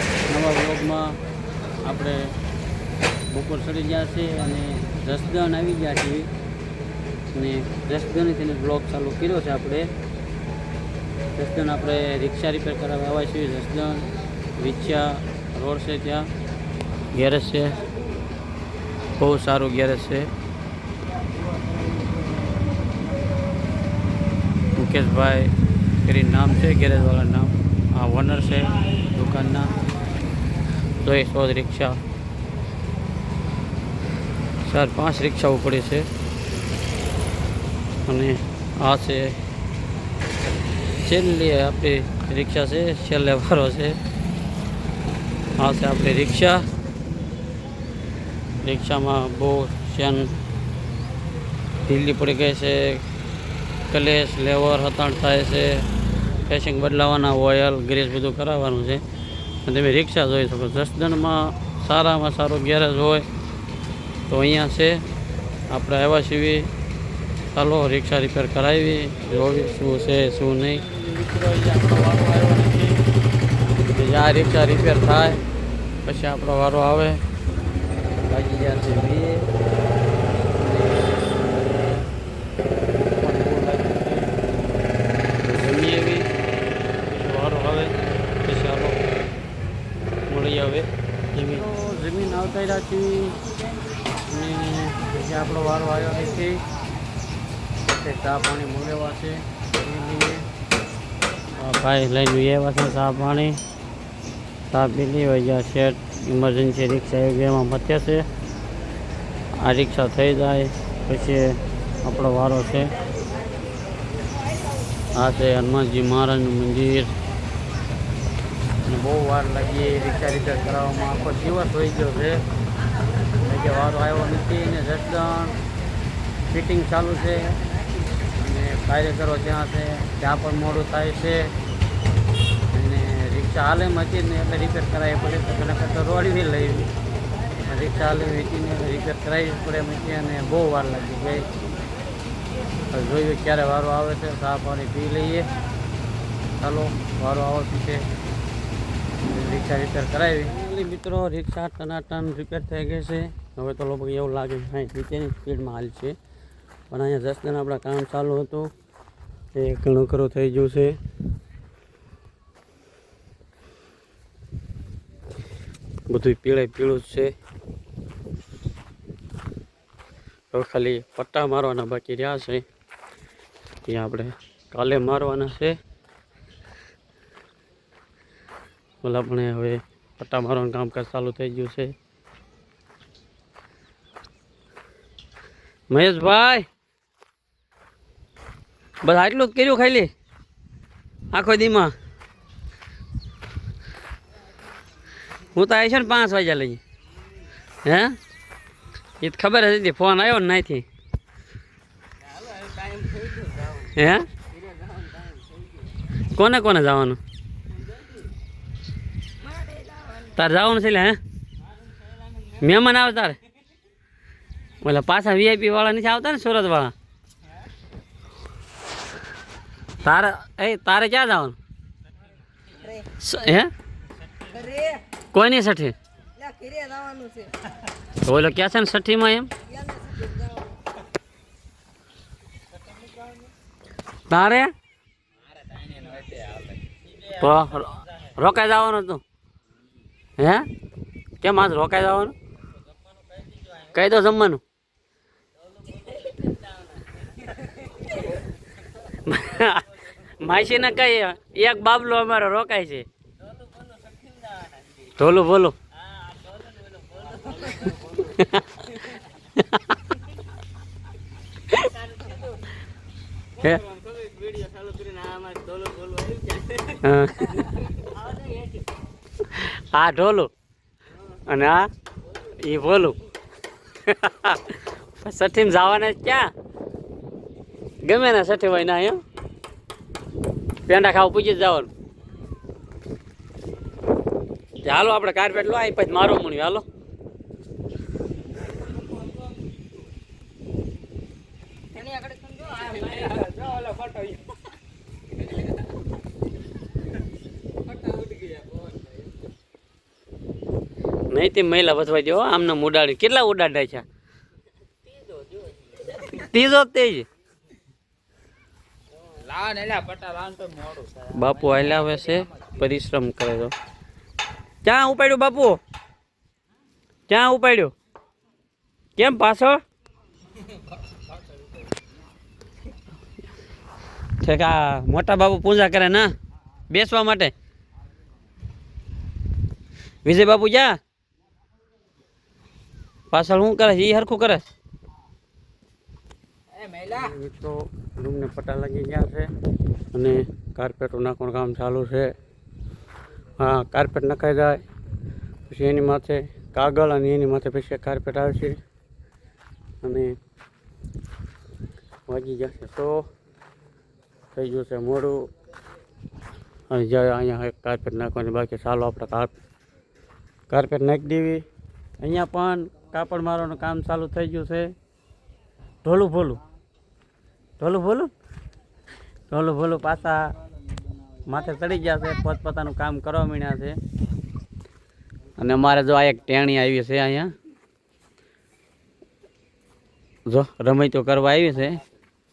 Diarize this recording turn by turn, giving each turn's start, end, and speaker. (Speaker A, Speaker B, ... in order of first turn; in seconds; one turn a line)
Speaker A: 0.3-1.2
Speaker A: 1.8-2.3
Speaker A: 3.3-6.3
Speaker A: 7.3-9.9
Speaker A: 11.3-16.3
Speaker A: 17.1-17.8
Speaker A: 19.2-20.3
Speaker A: 24.8-29.8
Speaker A: 31.0-32.0
Speaker A: 34.6-36.1
Speaker A: 38.0-39.4
Speaker A: 40.9-44.0
Speaker A: 45.6-46.7
Speaker A: 48.6-50.3
Speaker A: 51.8-53.0
Speaker A: 53.9-55.9
Speaker A: 56.5-59.0
Speaker A: 59.6-63.3
Speaker A: 64.3-65.1
Speaker A: 65.7-66.7
Speaker A: 67.5-73.0
Speaker A: 73.9-75.4
Speaker A: 76.0-77.2
Speaker A: 78.3-79.5
Speaker A: 80.4-82.0
Speaker A: 83.1-84.3
Speaker A: 85.4-86.3
Speaker A: 87.1-89.0
Speaker A: 90.3-93.4
Speaker A: 94.3-96.6
Speaker A: 97.8-100.5
Speaker A: 101.6-103.6
Speaker A: 104.7-108.3
Speaker A: 109.6-112.9
Speaker A: 115.2-117.1
Speaker A: 118.9-122.4
Speaker A: 123.5-125.6
Speaker A: 126.5-127.6
Speaker A: 128.3-131.5
Speaker A: 132.7-136.9
Speaker A: 137.7-141.5
Speaker A: 142.9-145.5
Speaker A: 146.6-148.1
Speaker A: 149.2-156.2
Speaker A: 156.9-158.7
Speaker A: 159.5-161.0
Speaker A: 166.1-167.3
Speaker A: 170.5-172.6
Speaker A: 173.9-175.8
Speaker A: 179.0-181.9
Speaker A: 185.9-186.7
Speaker A: 189.0-190.1
Speaker A: 191.3-191.9
Speaker A: 195.5-196.8
Speaker A: 197.8-198.2
Speaker A: 199.2-200.8
Speaker B: 202.2-203.9
Speaker A: 203.9-204.3
Speaker B: 204.5-205.7
Speaker A: 206.3-207.2
Speaker A: 210.1-211.2
Speaker A: 212.6-213.4
Speaker A: 214.8-216.9
Speaker A: 220.0-221.6
Speaker A: 223.2-223.7
Speaker B: 224.5-225.0
Speaker A: 225.3-225.9
Speaker B: 226.4-227.5
Speaker A: 228.1-229.5
Speaker B: 229.9-230.5
Speaker A: 234.3-234.7
Speaker B: 235.7-236.7
Speaker A: 237.2-239.2
Speaker A: 240.4-240.7
Speaker A: 241.4-242.3
Speaker A: 243.8-244.6
Speaker B: 246.0-246.7
Speaker A: 249.1-253.1
Speaker B: 253.6-254.9
Speaker A: 255.1-255.8
Speaker B: 256.2-258.4
Speaker A: 258.4-258.9
Speaker A: 259.6-259.9
Speaker B: 262.2-262.5
Speaker B: 263.8-267.0
Speaker A: 266.9-267.7
Speaker B: 268.1-268.6
Speaker A: 269.5-270.5
Speaker A: 271.5-271.9
Speaker A: 272.5-273.2
Speaker A: 274.0-276.5
Speaker A: 278.0-279.2
Speaker A: 280.9-281.9
Speaker A: 284.8-286.9
Speaker B: 291.9-294.4
Speaker B: 297.9-299.1
Speaker A: 301.3-304.1
Speaker B: 305.4-305.7
Speaker A: 306.1-307.2
Speaker B: 309.3-311.4
Speaker A: 311.3-313.7
Speaker A: 314.8-315.8
Speaker A: 317.3-317.9
Speaker A: 319.2-319.8
Speaker A: 324.4-326.3
Speaker A: 326.9-327.5
Speaker A: 330.2-331.0
Speaker A: 333.3-334.6
Speaker B: 336.8-337.2
Speaker A: 337.0-339.5
Speaker A: 340.1-342.3
Speaker A: 343.6-344.8
Speaker A: 345.7-348.8
Speaker A: 350.0-350.4
Speaker A: 352.3-353.3
Speaker A: 354.6-355.5
Speaker A: 356.9-359.5
Speaker A: 360.7-361.6
Speaker A: 362.2-364.9
Speaker A: 366.0-366.6
Speaker A: 367.8-368.3
Speaker A: 369.5-370.5
Speaker A: 371.5-374.0
Speaker A: 375.6-377.5
Speaker A: 380.5-382.0